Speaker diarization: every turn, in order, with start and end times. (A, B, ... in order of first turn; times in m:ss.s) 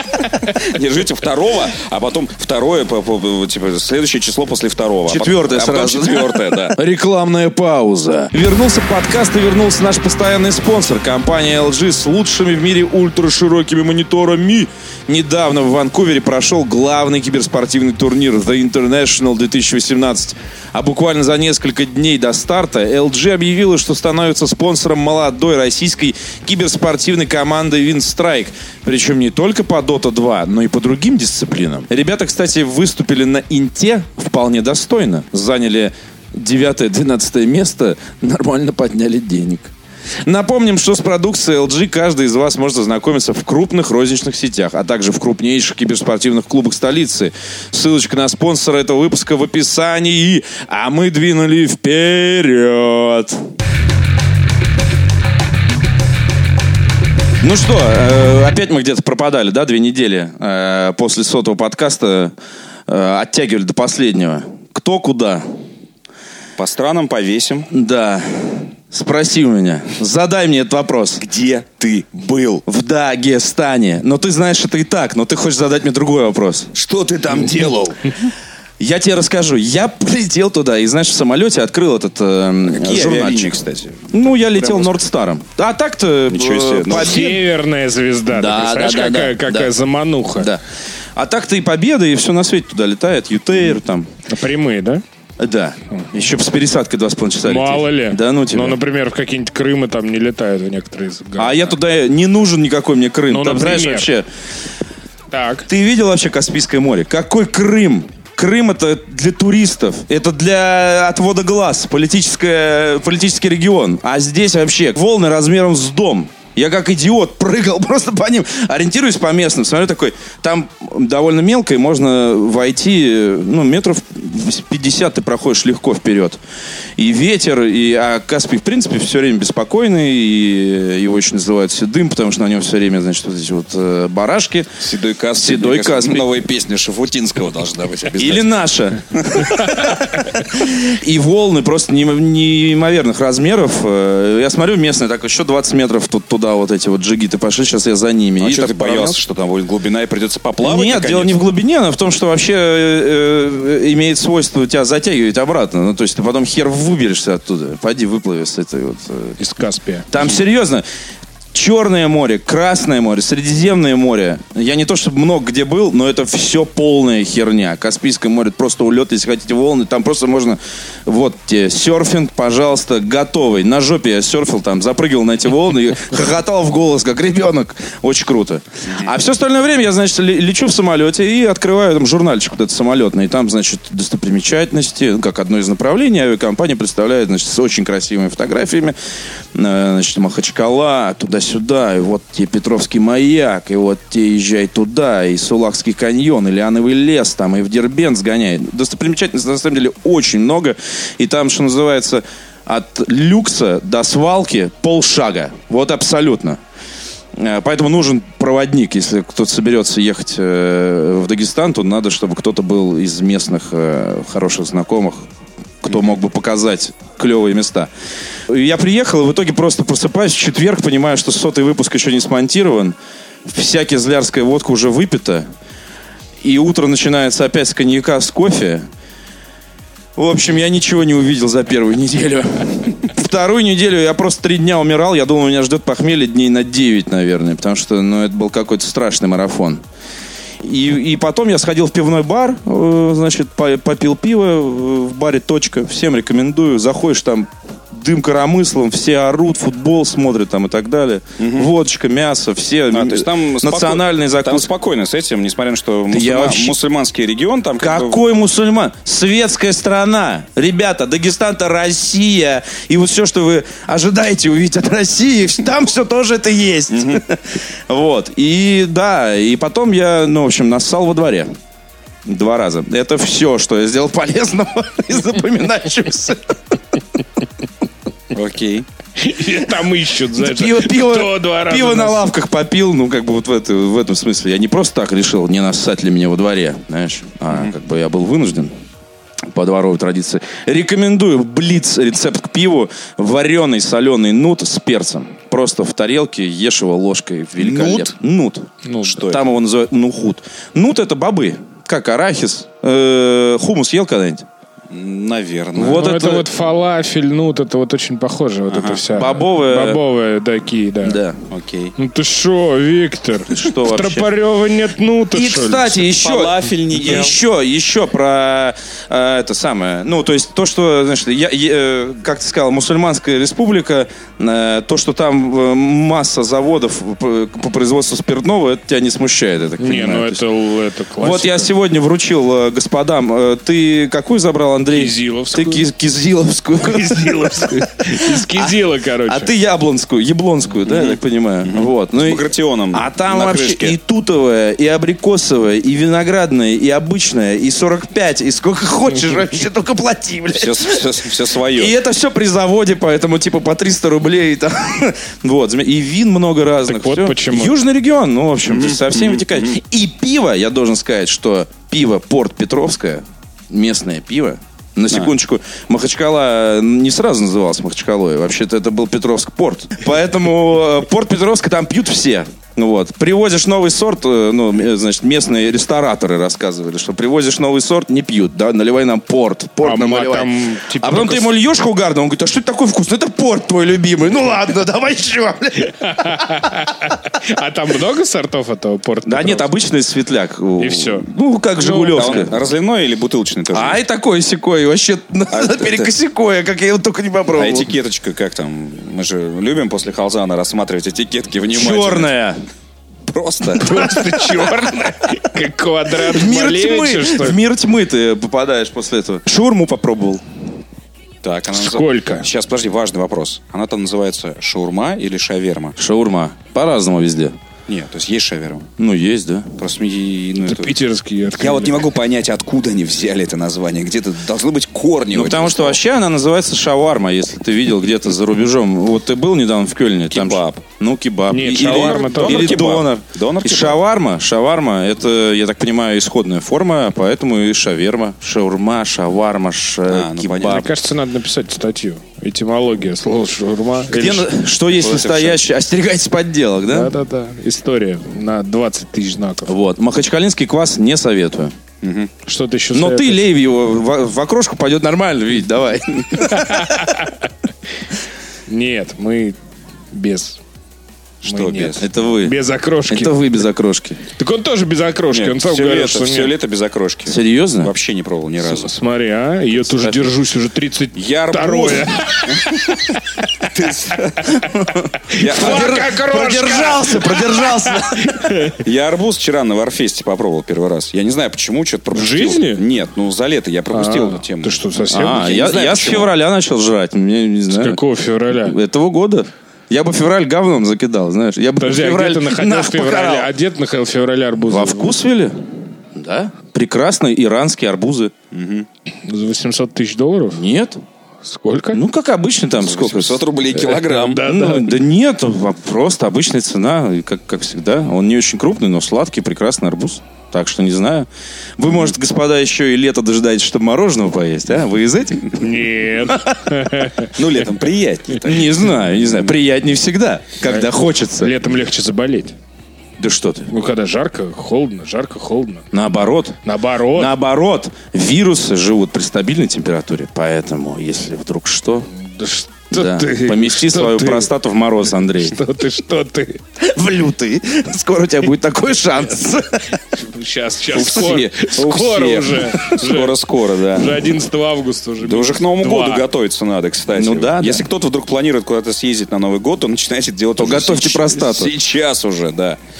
0:00.4-0:06.8 A
0:05.1-0:39.7 B
0:40.2-0:53.4 B
0:57.4-1:02.3 B
1:02.9-1:05.4 B
1:06.6-1:07.7 A
1:07.7-1:11.2 B
1:11.2-1:12.6 A
1:12.7-1:16.7 B
1:16.7-1:18.3 A
1:18.8-1:23.6 B
1:22.7-1:25.0 A
1:24.1-1:27.4 B
1:26.3-1:27.3 A
1:26.9-1:30.5 C
1:28.3-1:29.7 B
1:30.4-1:30.6 B
1:31.2-1:34.1 B
1:34.3-1:35.0 C
1:35.4-1:38.8 B
1:37.4-1:41.7 C
1:41.4-1:44.3 B
1:43.3-1:44.1 C
1:45.3-1:45.7 C
1:45.7-2:06.4 B
2:07.0-2:14.7 B
2:14.8-2:18.5 A
2:15.4-2:16.3 B
2:18.2-2:29.2 B
2:19.3-2:19.8 A
2:28.4-2:31.4 A
2:30.6-2:39.4 B
2:39.4-2:40.1 C
2:40.1-2:40.8 B
2:41.5-3:08.9 B
3:09.5-3:26.6 B
3:27.3-3:35.3 B
3:35.8-3:37.9 B
3:38.5-3:45.5 B
3:46.4-3:48.8 B
3:50.2-3:59.8 B
4:00.6-4:14.7 B
4:11.4-4:11.7 A
4:12.9-4:18.2 A
4:16.1-4:16.7 B
4:17.8-4:31.5 B
4:26.9-4:27.2 A
4:32.2-4:36.6 B
4:38.3-4:38.9 A
4:39.2-4:42.2 C
4:40.4-4:48.7 B
4:49.5-5:04.4 B
4:57.6-4:58.1 A
4:58.8-4:59.3 C
4:59.0-4:59.4 A
5:04.9-5:06.0 A
5:05.7-5:06.4 B
5:05.8-5:11.2 C
5:08.7-5:09.0 A
5:09.1-5:10.0 B
5:11.0-5:11.4 B
5:11.5-5:11.9 A
5:12.0-5:16.0 C
5:13.5-5:14.2 B
5:15.3-5:30.4 B
5:16.2-5:17.4 A
5:29.8-5:31.7 C
5:31.2-5:38.7 B
5:34.9-5:35.8 C
5:36.8-5:39.5 C
5:39.3-5:51.0 B
5:40.8-5:44.0 A
5:50.5-5:51.9 A
5:51.7-6:26.4 B
5:56.8-5:57.8 C
5:58.7-5:59.8 A
6:19.8-6:21.5 C
6:25.9-6:29.7 C
6:29.2-6:32.5 B
6:30.8-6:31.3 C
6:31.8-6:32.5 C
6:32.1-6:34.0 A
6:33.7-6:37.9 B
6:35.5-6:36.1 A
6:37.6-6:42.3 A
6:41.7-6:42.6 B
6:43.3-6:44.3 A
6:43.8-6:47.6 C
6:46.2-6:50.4 B
6:51.4-6:56.0 A
6:51.7-6:52.5 C
6:56.0-6:57.5 B
6:57.9-6:58.9 A
6:59.0-6:59.7 B
6:59.8-7:01.0 A
7:00.6-7:02.0 C
7:01.5-7:06.0 A
7:05.3-7:20.9 B
7:10.3-7:10.8 A
7:11.5-7:12.9 C
7:11.6-7:14.0 A
7:20.1-7:20.9 A
7:20.6-7:24.5 C
7:24.1-7:27.1 B
7:25.0-7:25.6 A
7:26.9-7:29.7 C
7:29.6-7:31.7 B
7:32.0-7:32.3 A
7:32.4-7:33.4 C
7:32.9-7:36.9 B
7:36.4-7:37.4 C
7:38.7-7:39.6 C
7:40.1-7:40.6 C
7:41.4-7:42.0 A
7:41.4-7:43.4 C
7:42.0-7:42.6 B
7:43.1-7:44.2 B
7:44.4-7:46.5 C
7:45.3-7:48.9 A
7:47.3-7:47.9 B
7:48.6-7:53.7 C
7:51.1-7:52.7 A
7:53.7-7:54.7 A
7:54.7-7:58.7 B
7:55.3-7:58.8 C
7:55.3-7:56.2 A
7:58.8-8:06.3 A
8:02.1-8:02.8 C
8:03.9-8:05.5 C
8:05.1-8:08.0 B
8:07.7-8:08.8 C
8:08.6-8:13.5 B
8:11.8-8:15.2 C
8:14.7-8:18.3 B
8:18.5-8:18.9 A
8:19.2-8:20.6 C
8:20.5-8:21.0 B
8:21.4-8:22.0 C
8:21.9-8:23.4 B
8:22.8-8:24.5 A
8:23.7-8:25.0 C
8:24.4-8:35.6 B
8:35.5-8:37.3 C
8:36.3-8:36.6 B
8:37.3-8:39.5 A
8:38.4-8:41.5 B
8:40.6-8:42.5 C
8:43.2-8:43.7 B
8:43.7-8:45.8 C
8:45.9-8:46.6 B
8:46.6-8:47.3 C
8:47.1-8:52.1 B
8:52.2-8:54.5 C
8:52.9-8:55.6 B
8:55.4-8:56.6 C
8:56.8-9:00.1 B
9:00.1-9:03.4 C
9:00.9-9:01.8 B
9:01.1-9:04.2 A
9:03.9-9:06.2 C
9:05.2-9:12.8 A
9:07.1-9:07.8 B
9:10.6-9:11.7 B